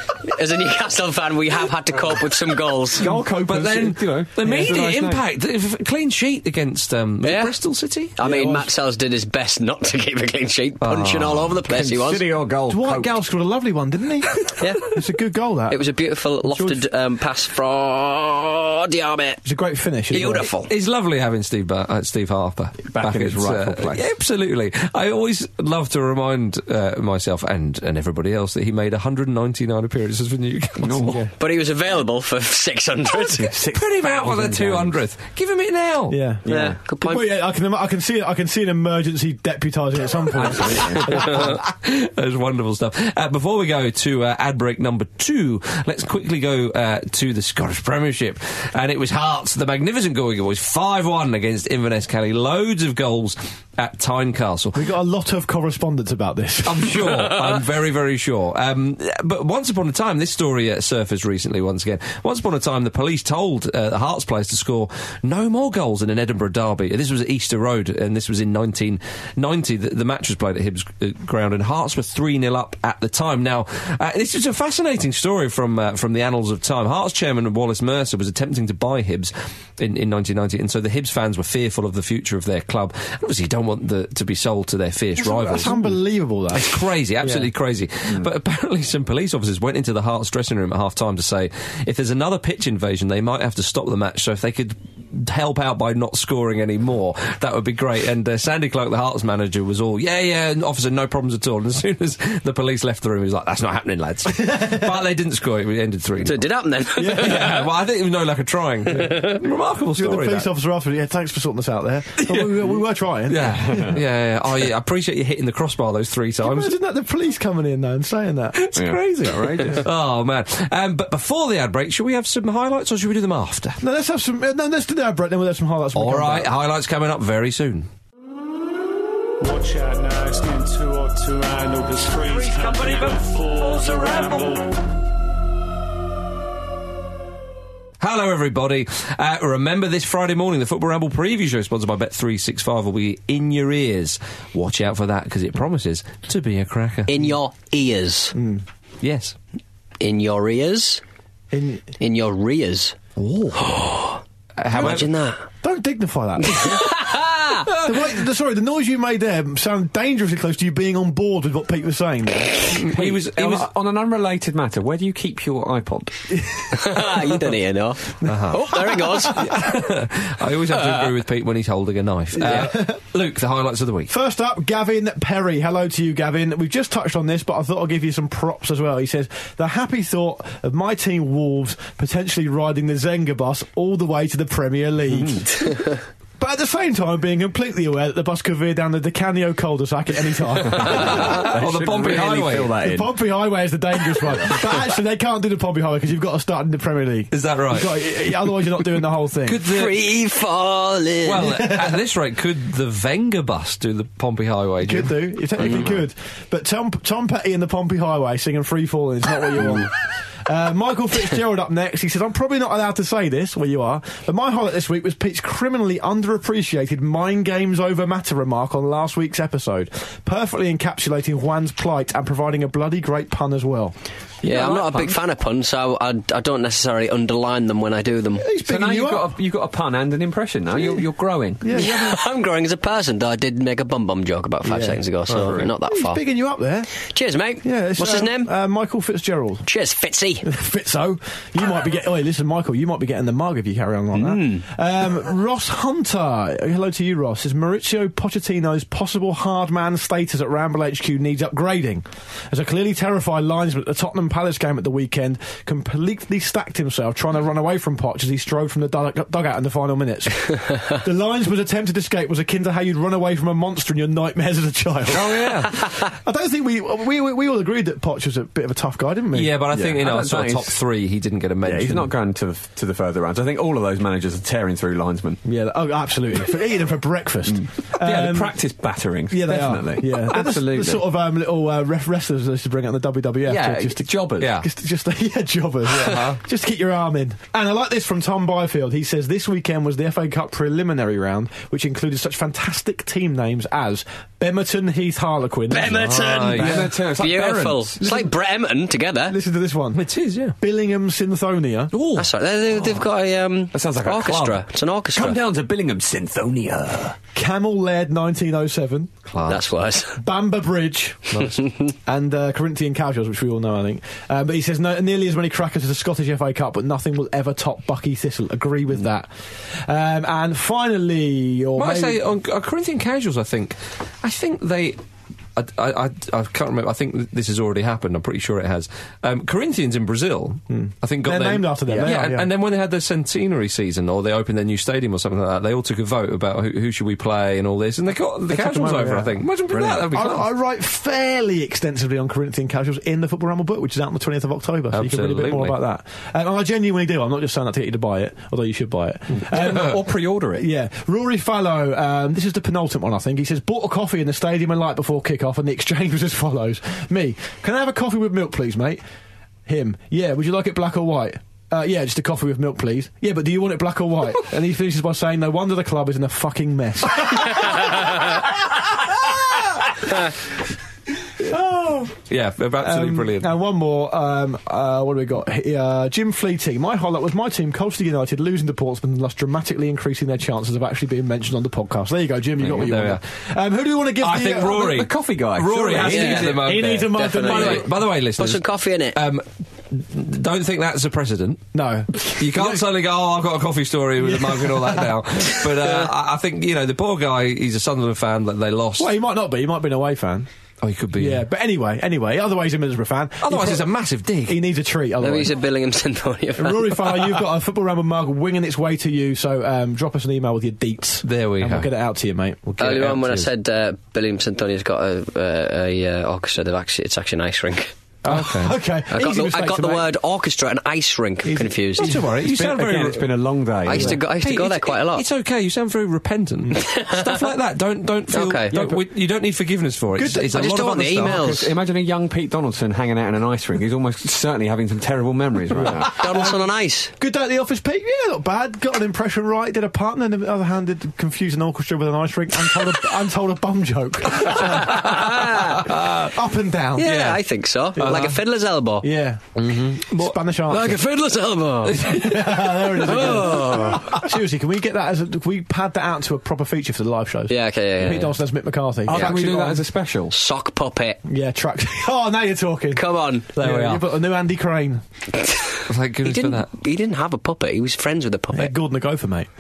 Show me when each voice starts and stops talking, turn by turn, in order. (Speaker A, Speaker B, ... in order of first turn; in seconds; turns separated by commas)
Speaker A: 0.2-3.1, Speaker B: 3.0-5.2, Speaker C: 3.5-8.1, Speaker D: 4.5-4.8, Speaker A: 7.2-7.5, Speaker A: 8.2-12.2, Speaker B: 8.3-8.6, Speaker C: 10.9-11.2, Speaker B: 11.6-13.1, Speaker D: 12.7-15.8, Speaker A: 14.6-14.8, Speaker A: 15.7-19.4, Speaker D: 16.5-16.9, Speaker D: 19.4-20.5, Speaker A: 20.1-20.7, Speaker C: 20.7-31.2, Speaker B: 22.9-24.0, Speaker B: 30.8-31.2, Speaker A: 31.4-33.5, Speaker B: 33.4-35.0, Speaker C: 33.7-36.2, Speaker D: 36.1-41.5, Speaker B: 36.5-36.8, Speaker A: 36.5-37.3, Speaker B: 40.4-41.3, Speaker C: 41.1-54.8, Speaker D: 54.7-57.3, Speaker C: 56.6-85.8, Speaker D: 85.2-87.5, Speaker C: 86.5-106.5, Speaker D: 104.5-104.8, Speaker A: 106.2-107.5, Speaker D: 107.0-107.7, Speaker C: 107.0-110.5, Speaker D: 109.9-113.9, Speaker C: 112.2-112.7, Speaker C: 113.3-116.7, Speaker B: 113.6-114.0, Speaker D: 116.4-118.6, Speaker C: 118.6-123.8, Speaker B: 118.8-119.8, Speaker D: 123.8-126.5, Speaker C: 126.0-127.9, Speaker E: 129.4-134.6, Speaker C: 131.9-134.8, Speaker C: 138.0-147.1, Speaker A: 147.1-148.3, Speaker D: 148.3-148.7, Speaker C: 149.0-149.4, Speaker A: 150.0-151.0, Speaker D: 151.5-151.9, Speaker A: 152.0-152.9, Speaker C: 153.2-153.7, Speaker A: 153.6-154.2, Speaker C: 154.6-155.1, Speaker A: 154.7-155.4, Speaker D: 155.6-156.9, Speaker A: 156.4-157.7, Speaker D: 157.7-162.8, Speaker C: 162.7-163.7, Speaker B: 162.8-166.1, Speaker A: 166.7-169.6, Speaker C: 168.2-168.8, Speaker D: 168.2-169.6, Speaker C: 169.3-174.1, Speaker A: 170.8-171.1, Speaker D: 172.4-173.0, Speaker D: 174.1-185.6, Speaker D: 186.4-191.4, Speaker B: 190.7-193.1, Speaker C: 190.8-192.8, Speaker D: 192.8-199.7, Speaker C: 197.3-198.0, Speaker C: 199.4-200.0, Speaker A: 199.7-201.5, Speaker C: 201.2-205.2, Speaker D: 201.4-202.0, Speaker D: 204.8-209.9, Speaker B: 205.6-206.0, Speaker D: 210.4-223.9, Speaker B: 224.4-225.2, Speaker A: 224.4-228.4, Speaker D: 228.4-229.3, Speaker B: 228.6-231.8, Speaker D: 231.6-232.2, Speaker A: 231.8-236.2, Speaker D: 234.7-235.0, Speaker B: 235.3-235.7, Speaker D: 235.9-236.9, Speaker A: 237.0-238.5, Speaker D: 237.6-239.7, Speaker A: 239.7-240.5, Speaker D: 240.4-265.5, Speaker A: 244.2-244.6, Speaker C: 265.1-265.7, Speaker D: 266.2-269.6, Speaker C: 269.3-272.1, Speaker B: 269.7-270.8, Speaker B: 271.6-275.4, Speaker D: 275.4-278.6, Speaker B: 277.5-281.0, Speaker D: 279.3-296.9, Speaker B: 283.5-284.5, Speaker C: 284.4-284.7, Speaker C: 285.9-286.4, Speaker A: 295.7-299.4, Speaker C: 295.9-296.9, Speaker B: 296.5-298.3, Speaker D: 299.3-300.0, Speaker C: 299.9-300.6, Speaker D: 300.6-301.9, Speaker C: 301.9-302.3, Speaker A: 302.2-305.4, Speaker B: 303.7-307.2, Speaker D: 307.4-309.1, Speaker C: 309.3-309.7, Speaker A: 309.5-310.2, Speaker D: 310.2-311.4, Speaker C: 311.3-311.6, Speaker D: 312.1-322.2, Speaker C: 321.8-325.0, Speaker C: 325.6-340.5, Speaker D: 330.7-332.5, Speaker B: 331.9-332.1, Speaker D: 338.5-339.4, Speaker B: 339.7-340.1, Speaker D: 340.0-350.0, Speaker C: 344.9-345.8, Speaker B: 349.5-350.6, Speaker D: 350.6-359.0, Speaker D: 359.7-368.4, Speaker D: 371.4-372.2, Speaker C: 372.3-373.5, Speaker D: 372.8-384.9, Speaker C: 382.6-383.2, Speaker C: 384.2-391.7, Speaker B: 384.5-386.8, Speaker D: 386.0-387.9, Speaker A: 386.1-389.2, Speaker D: 391.7-392.8, Speaker C: 392.2-399.1, Speaker D: 394.2-395.2, Speaker D: 399.0-400.5, Speaker C: 400.8-401.4, Speaker D: 401.2-403.9, Speaker C: 403.4-404.6, Speaker D: 404.5-405.6, Speaker A: 405.2-407.3, Speaker D: 406.6-412.7, Speaker C: 411.2-411.9, Speaker C: 412.7-413.5, Speaker A: 412.8-417.9, Speaker D: 418.2-420.1, Speaker C: 418.3-418.8, Speaker A: 419.1-422.1, Speaker D: 421.4-422.6, Speaker C: 422.0-423.3, Speaker B: 422.5-424.2, Speaker A: 423.9-425.2, Speaker C: 423.9-431.5, Speaker A: 426.8-427.2, Speaker A: 428.3-428.8, Speaker D: 430.1-430.7, Speaker A: 430.5-431.7, Speaker B: 431.2-436.2, Speaker A: 436.1-437.1, Speaker D: 437.2-445.1, Speaker C: 444.4-445.0, Speaker A: 444.6-445.9, Speaker C: 445.8-446.3, Speaker D: 446.3-447.1, Speaker A: 447.0-449.1, Speaker C: 447.0-447.4, Speaker D: 448.0-448.4, Speaker D: 449.0-451.0, Speaker C: 449.6-450.4, Speaker A: 450.7-452.1, Speaker C: 451.9-452.5, Speaker D: 452.0-459.8, Speaker A: 453.0-454.2, Speaker C: 453.2-453.4, Speaker A: 457.5-458.4, Speaker B: 459.1-460.3, Speaker A: 460.3-461.2, Speaker D: 461.3-463.0, Speaker A: 462.9-463.5, Speaker C: 463.6-464.1, Speaker D: 463.6-465.0, Speaker A: 465.4-465.7, Speaker C: 465.9-466.7, Speaker A: 466.2-468.7, Speaker D: 468.5-469.5